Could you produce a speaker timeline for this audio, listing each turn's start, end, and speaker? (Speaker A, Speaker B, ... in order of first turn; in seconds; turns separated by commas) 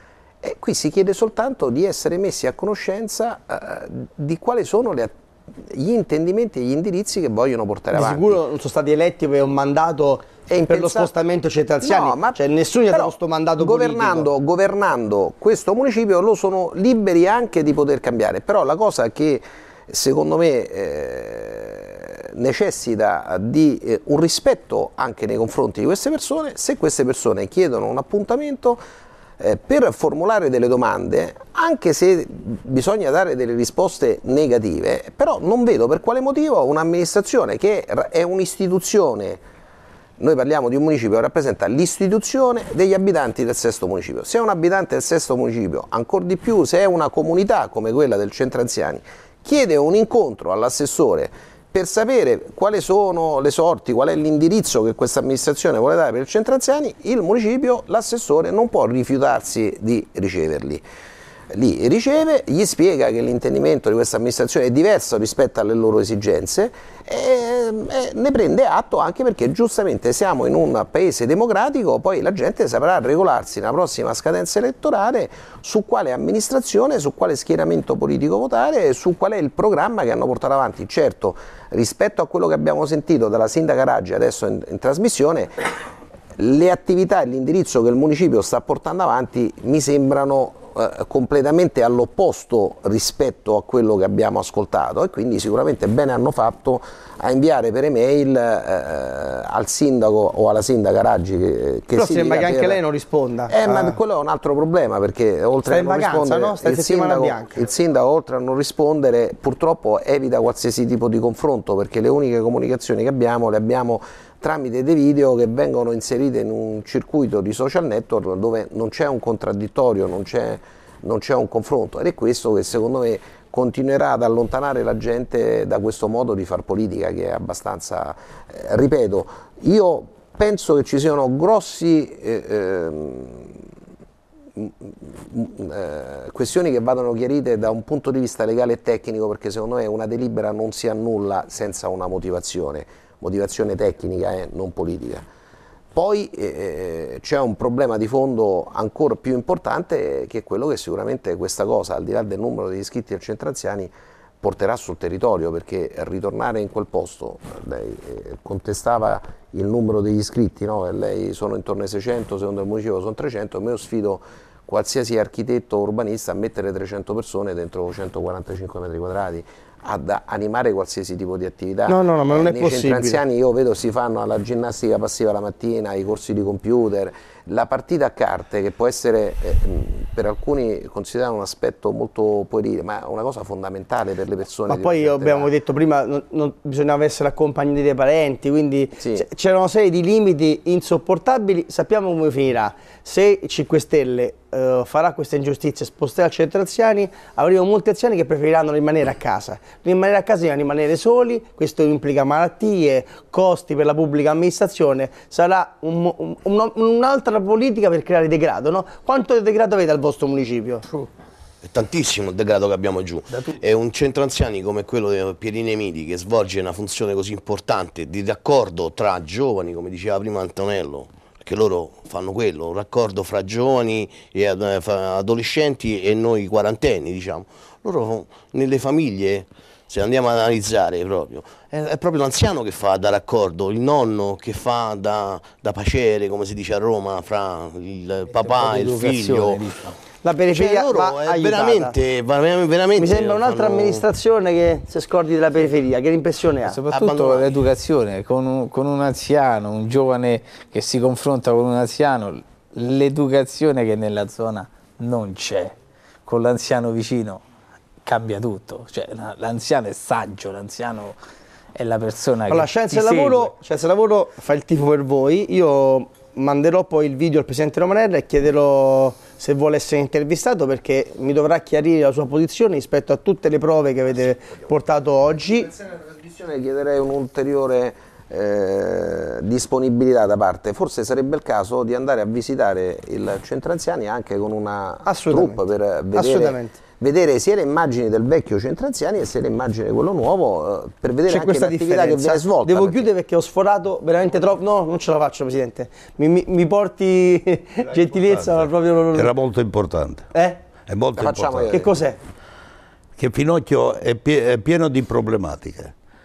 Speaker A: 0.4-8.4, Speaker B: 7.9-14.3, Speaker A: 10.5-11.1, Speaker A: 11.8-28.8, Speaker A: 29.4-39.4, Speaker A: 40.2-60.8, Speaker A: 61.5-85.5, Speaker A: 86.4-102.8, Speaker B: 102.0-104.0, Speaker A: 103.5-133.7, Speaker B: 105.7-107.6, Speaker A: 134.6-145.2, Speaker A: 145.9-185.5, Speaker B: 171.9-173.2, Speaker B: 184.7-210.9, Speaker A: 189.0-189.3, Speaker C: 211.6-239.9, Speaker D: 238.3-239.9, Speaker B: 240.2-241.9, Speaker C: 240.5-244.0, Speaker B: 242.9-246.8, Speaker D: 246.6-257.4, Speaker C: 246.9-247.6, Speaker D: 258.0-261.2, Speaker D: 261.7-263.5, Speaker B: 262.5-275.7, Speaker A: 275.6-293.1, Speaker B: 285.0-285.6, Speaker B: 286.1-286.8, Speaker B: 291.3-299.3, Speaker E: 298.3-300.2, Speaker B: 300.3-300.6, Speaker E: 300.9-301.7, Speaker A: 301.1-301.9, Speaker B: 301.7-302.2, Speaker E: 303.2-305.9